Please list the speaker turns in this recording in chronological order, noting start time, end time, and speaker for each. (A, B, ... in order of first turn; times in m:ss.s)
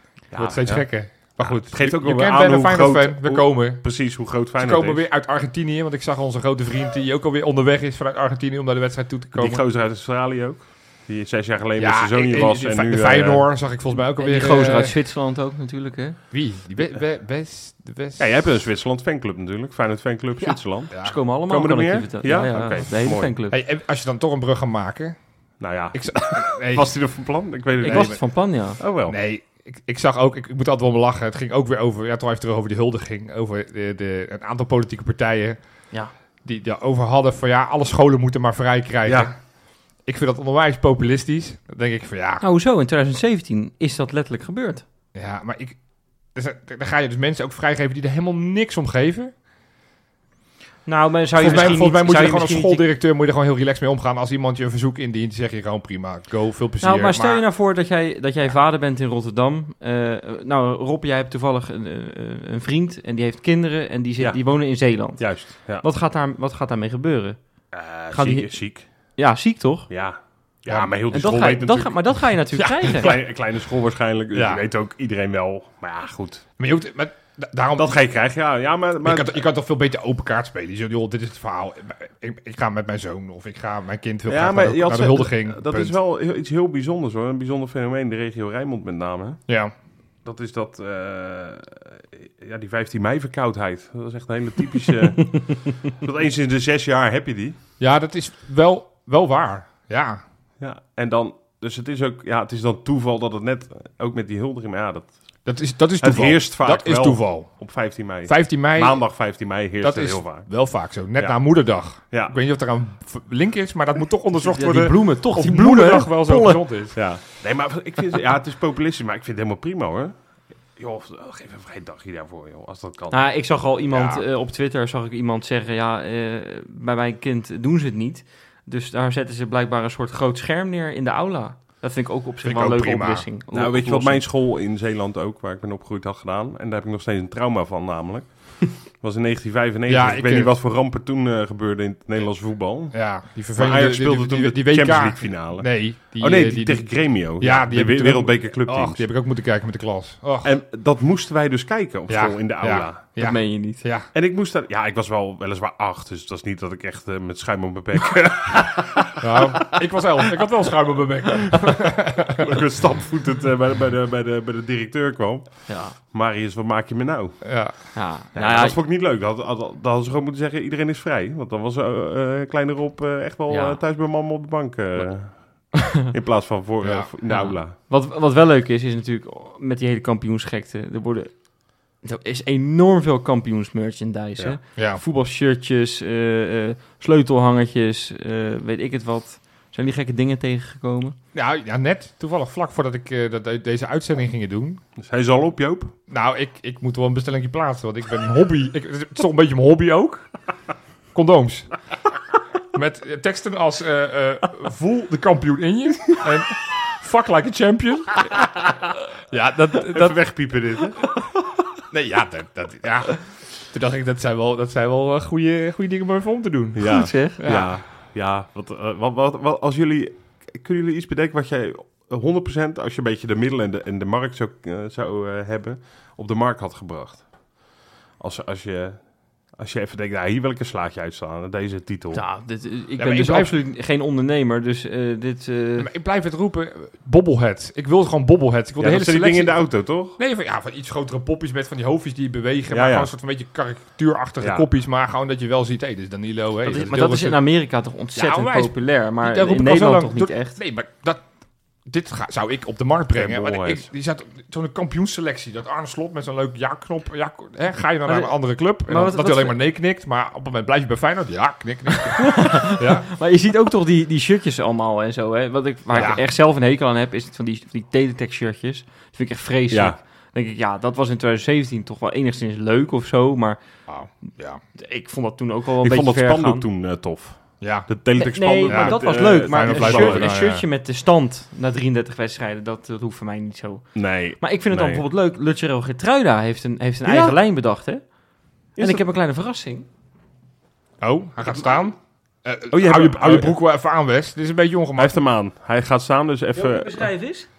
0:00.3-0:03.8 A
0:00.3-0:05.0 B
0:04.6-0:09.6 A
0:09.3-0:13.5 B
0:11.8-0:14.9 A
0:14.2-0:16.2 C
0:16.3-0:18.2 A
0:18.2-0:23.3 B
0:20.4-0:23.6 C
0:20.9-0:21.2 A
0:23.5-0:25.2 A
0:25.6-0:28.2 B
0:25.9-0:27.0 A
0:27.8-0:28.8 C
0:27.8-0:28.2 A
0:28.8-0:29.2 B
0:29.1-0:35.6 A
0:36.4-0:39.4 A
0:39.0-0:39.3 B
0:40.0-0:42.4 A
0:42.4-0:44.8 C
0:45.1-0:45.8 A
0:46.3-0:49.3 A
0:50.8-0:52.8 C
0:51.4-0:57.4 A
0:56.8-1:07.4 C
1:05.0-1:05.8 B
1:07.7-1:08.8 B
1:08.1-1:08.5 C
1:09.2-1:09.9 C
1:09.9-1:12.2 B
1:11.1-1:13.1 C
1:12.6-1:13.2 A
1:12.9-1:16.4 B
1:14.3-1:14.6 A
1:16.6-1:18.0 A
1:17.8-1:19.4 B
1:19.0-1:26.0 A
1:24.3-1:29.4 B
1:29.5-1:29.7 A
1:30.2-1:37.6 B
1:37.8-1:40.2 A
1:40.6-1:45.2 B
1:45.4-1:47.7 A
1:46.0-1:50.5 B
1:48.2-1:49.1 A
1:49.8-1:57.0 A
1:52.0-1:52.3 B
1:54.4-1:56.6 C
1:56.9-2:00.1 B
2:00.8-2:03.2 B
2:03.1-2:14.2 C
2:03.9-2:04.2 A
2:12.4-2:13.2 A
2:13.5-2:29.0 B
2:19.9-2:20.5 A
2:22.9-2:30.5 A
2:30.4-2:33.0 B
2:32.1-2:34.1 A
2:33.2-2:33.8 C
2:34.1-2:39.8 B
2:39.2-2:42.4 A
2:42.3-2:57.8 B
2:45.7-2:45.9 C
2:47.4-2:47.7 A
2:47.9-2:48.8 C
2:53.5-2:53.8 C
2:56.8-2:57.1 A
2:57.3-3:01.3 C
3:02.0-3:11.2 C
3:04.8-3:05.0 A
3:11.3-3:14.8 A
3:15.0-3:15.9 B
3:16.1-3:20.3 A
3:21.1-3:21.7 A
3:22.7-3:28.7 A
3:29.3-3:30.2 A
3:29.9-3:31.1 B
3:31.9-3:37.8 A
3:36.8-3:47.3 B
3:36.8-3:37.4 C
3:48.2-3:52.2 B
3:52.1-3:55.9 C
3:53.0-3:53.5 A
3:55.8-3:59.6 A
3:58.8-4:00.2 B
4:00.2-4:07.4 A
4:02.7-4:03.1 B
4:04.4-4:04.6 B
4:06.6-4:10.6 C
4:08.2-4:11.2 A
4:11.8-4:23.1 A
4:13.1-4:13.9 B
4:18.0-4:18.3 C
4:18.8-4:19.5 C
4:22.2-4:33.6 C
4:25.9-4:26.2 A
4:29.7-4:30.0 B
4:33.9-4:34.6 A
4:34.7-4:36.6 C
4:35.8-4:40.3 B
4:37.6-4:37.9 A
4:38.2-4:48.0 C
4:38.6-4:40.6 A
4:43.9-4:45.0 B
4:47.0-4:47.4 B
4:48.8-4:49.9 C
4:48.8-4:49.0 B
4:51.0-4:55.2 A
4:52.7-4:53.6 B
4:55.0-4:57.1 B
4:56.5-4:57.5 C